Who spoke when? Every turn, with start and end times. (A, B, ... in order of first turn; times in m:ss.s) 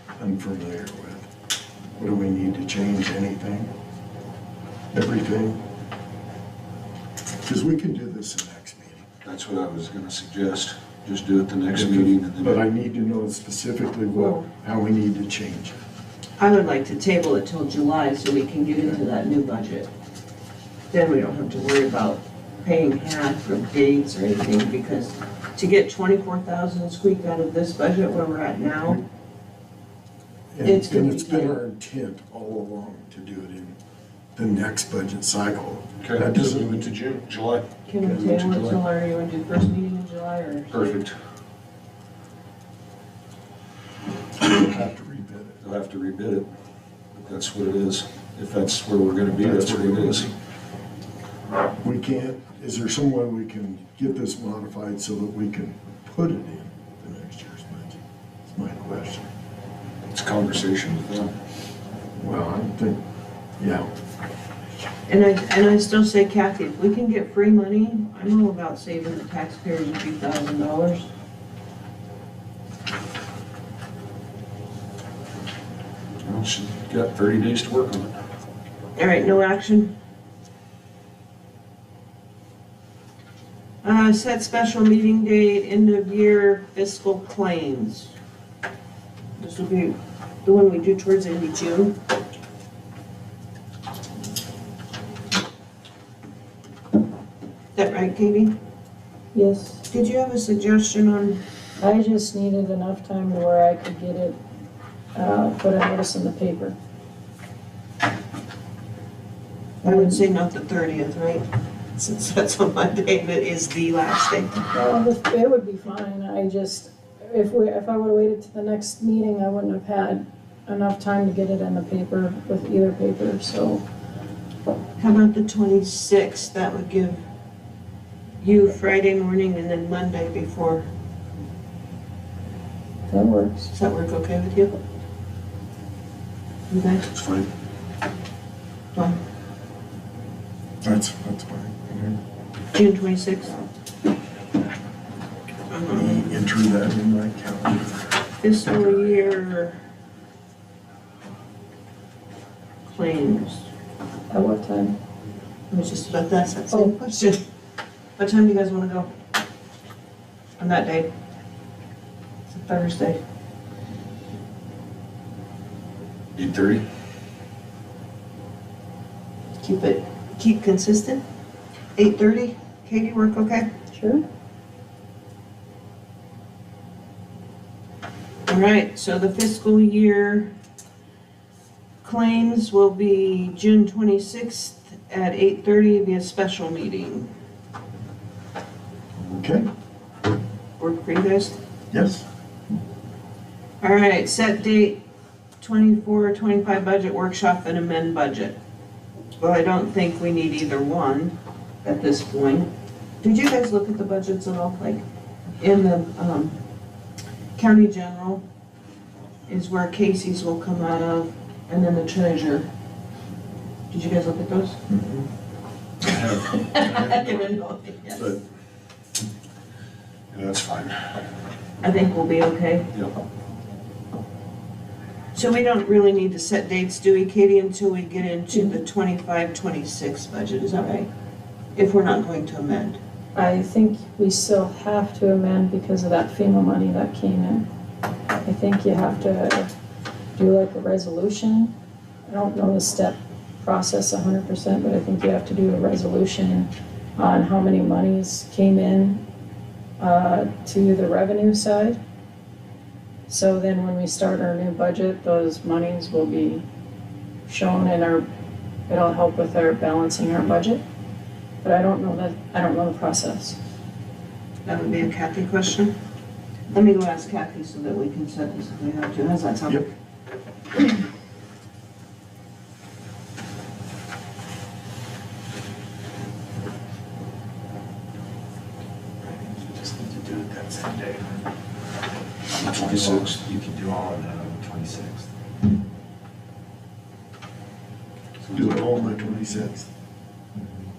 0:00.2-0:01.3 A
0:02.0-0:03.7 A
0:04.9-0:05.6 A
0:07.4-0:09.1 A
0:09.2-0:12.6 B
0:11.7-0:15.8 A
0:14.1-0:14.4 C
0:16.4-0:19.9 C
0:20.9-0:29.0 C
0:28.7-0:29.0 A
0:30.5-0:33.8 A
0:30.6-0:31.6 C
0:34.4-0:36.9 A
0:36.0-0:38.8 B
0:37.9-0:41.0 C
0:40.7-0:41.2 B
0:44.4-0:45.6 A
0:45.6-0:46.5 B
0:47.1-0:50.3 B
0:49.3-0:50.3 A
0:51.8-0:59.3 A
1:00.1-1:01.3 B
1:02.2-1:03.0 A
1:03.6-1:03.9 A
1:05.1-1:11.1 C
1:16.2-1:18.2 B
1:19.0-1:19.9 C
1:23.8-1:28.1 C
1:29.4-1:32.0 C
1:37.8-1:38.6 C
1:39.3-1:39.8 D
1:39.9-1:41.4 C
1:41.8-1:44.4 D
1:45.2-1:46.8 D
1:49.8-1:50.2 D
1:49.8-1:54.6 C
1:54.7-2:03.8 D
2:05.0-2:07.2 C
2:08.4-2:10.9 C
2:13.1-2:13.7 D
2:13.7-2:14.7 C
2:16.7-2:17.1 C
2:17.1-2:17.5 B
2:20.8-2:22.2 A
2:22.7-2:23.6 C
2:25.7-2:26.2 C
2:25.9-2:28.1 A
2:28.4-2:29.8 C
2:32.9-2:33.7 C
2:34.3-2:35.0 D
2:35.7-2:37.4 C
2:38.2-2:39.1 C
2:40.6-2:41.1 C
2:42.5-2:43.2 C
2:46.4-2:46.8 B
2:49.6-2:51.2 C
2:52.0-2:53.7 C
2:53.9-2:54.2 D
2:58.5-3:00.5 C
3:02.0-3:07.3 C
3:09.2-3:09.7 A
3:10.8-3:11.6 C
3:11.9-3:12.2 A
3:13.8-3:15.0 C
3:15.6-3:18.6 C
3:19.4-3:25.0 C
3:25.6-3:26.6 C
3:27.6-3:28.4 C
3:29.5-3:32.7 C
3:33.9-3:34.8 C
3:34.9-3:35.3 A
3:36.0-3:37.4 B
3:36.6-3:38.4 C
3:38.1-3:38.4 B
3:40.3-3:41.2 B
3:41.8-3:42.9 C
3:45.3-3:51.1 C
3:51.8-3:53.0 C
3:53.4-3:57.7 D
3:58.4-3:59.7 D
4:00.4-4:01.7 D
4:02.3-4:09.2 D
4:10.0-4:12.0 D
4:13.3-4:16.6 D
4:17.5-4:18.3 D
4:18.9-4:20.8 D
4:21.6-4:23.6 D
4:24.6-4:25.9 C
4:26.7-4:29.9 C
4:39.2-4:41.2 A
4:42.7-4:43.4 B
4:43.1-4:45.2 E
4:48.4-4:49.3 B
4:48.5-4:49.9 A